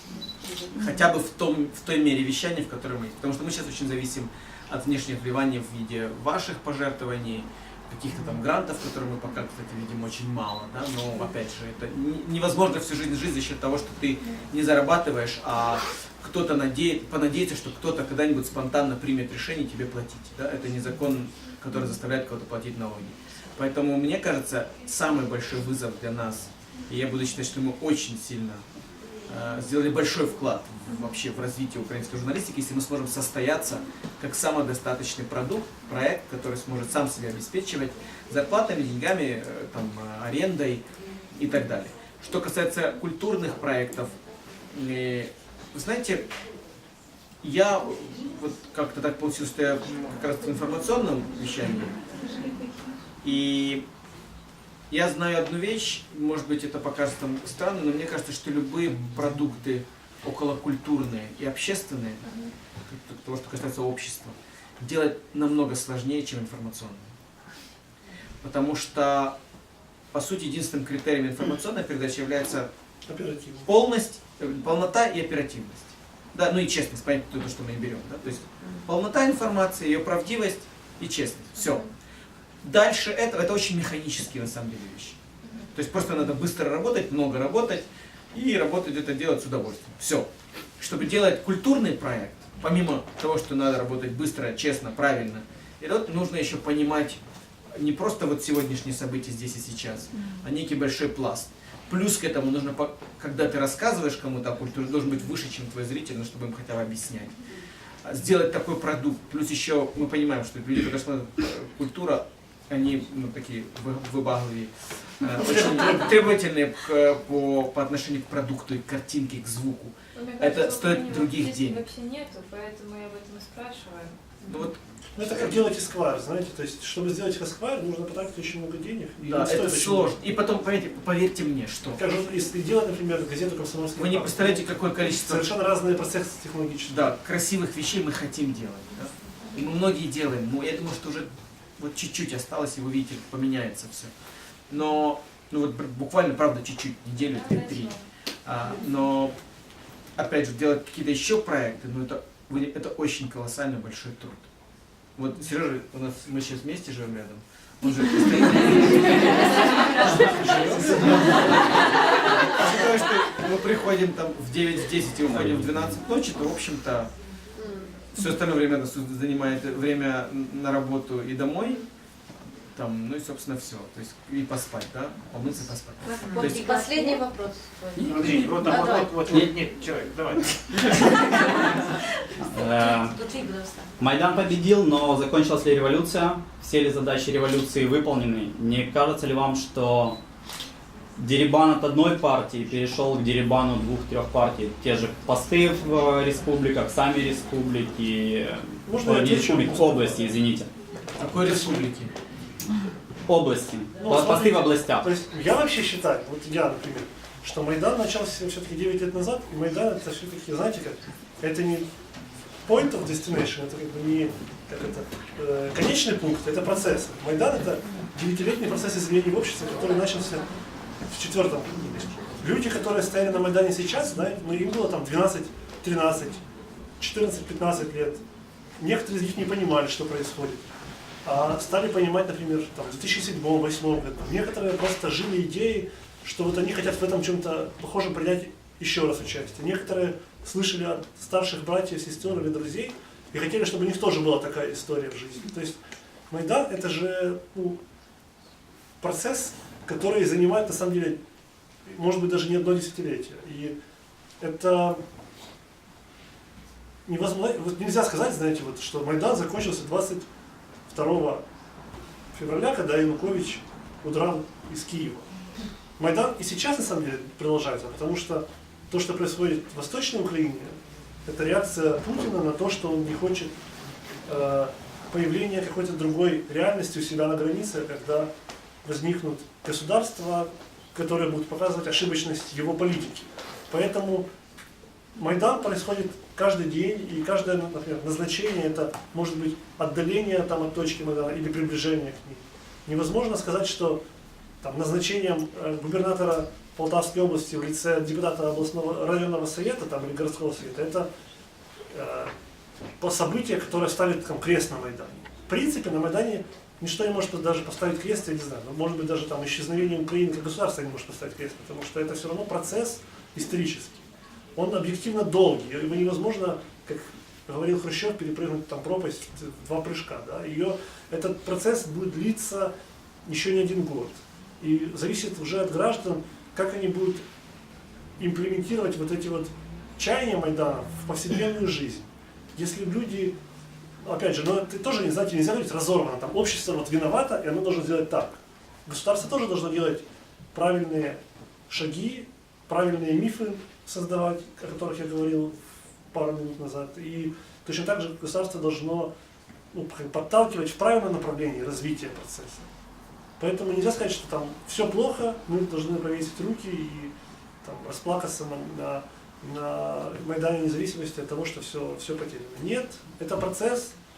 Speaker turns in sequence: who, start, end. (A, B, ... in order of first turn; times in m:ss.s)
0:00.7-0:28.6 A
0:29.3-0:44.1 A
0:44.7-0:46.3 A
0:47.4-0:52.0 A
0:53.2-0:53.8 A
0:54.9-1:02.2 A
1:02.9-1:07.1 A
1:08.4-1:09.4 A
1:10.1-1:12.7 A
1:13.1-1:13.7 B
1:13.6-1:21.8 A
1:22.6-1:25.2 A
1:25.7-1:30.3 A
1:30.8-1:37.2 A
1:37.7-1:47.4 A
1:48.0-2:01.9 A
1:55.3-1:56.3 B
2:00.2-2:04.2 C
2:04.5-2:05.7 A
2:05.1-2:10.2 B
2:09.2-2:12.0 A
2:12.0-2:17.1 B
2:14.0-2:15.5 A
2:16.9-2:24.1 A
2:24.7-2:29.3 A
2:27.3-2:27.9 C
2:30.2-2:34.4 A
2:35.2-2:47.1 A
2:40.2-2:41.4 B
2:47.6-2:47.9 D
2:48.1-2:51.9 A
2:52.7-2:57.1 A
2:56.0-2:58.1 D
2:58.0-2:58.6 E
2:58.1-3:00.4 F
2:58.3-2:58.7 A
2:58.6-2:59.1 D
2:59.4-2:59.8 A
3:02.5-3:03.1 E
3:02.7-3:03.9 D
3:04.0-3:10.2 E
3:11.2-3:20.7 E
3:18.8-3:20.4 B
3:21.2-3:22.1 A
3:21.2-3:21.9 B
3:23.3-3:25.1 E
3:24.0-3:31.9 B
3:32.6-3:40.5 B
3:41.0-3:46.4 B
3:47.0-3:48.2 B
3:48.8-3:50.7 B
3:51.2-4:05.8 B
4:06.3-4:07.8 B
4:09.0-4:11.2 B
4:11.9-4:13.7 B
4:14.4-4:15.0 B
4:17.0-4:20.2 B
4:20.9-4:21.4 B
4:22.3-4:25.3 B
4:26.0-4:33.5 B
4:34.2-4:38.3 B
4:38.8-4:44.3 B
4:45.2-4:54.0 B
4:54.6-5:01.1 B
5:01.9-5:02.3 B
5:03.0-5:22.7 B
5:23.2-5:27.2 B
5:28.2-5:33.3 B
5:34.0-5:45.6 B
5:46.1-5:49.1 B
5:49.7-5:52.7 B
5:53.4-6:03.9 B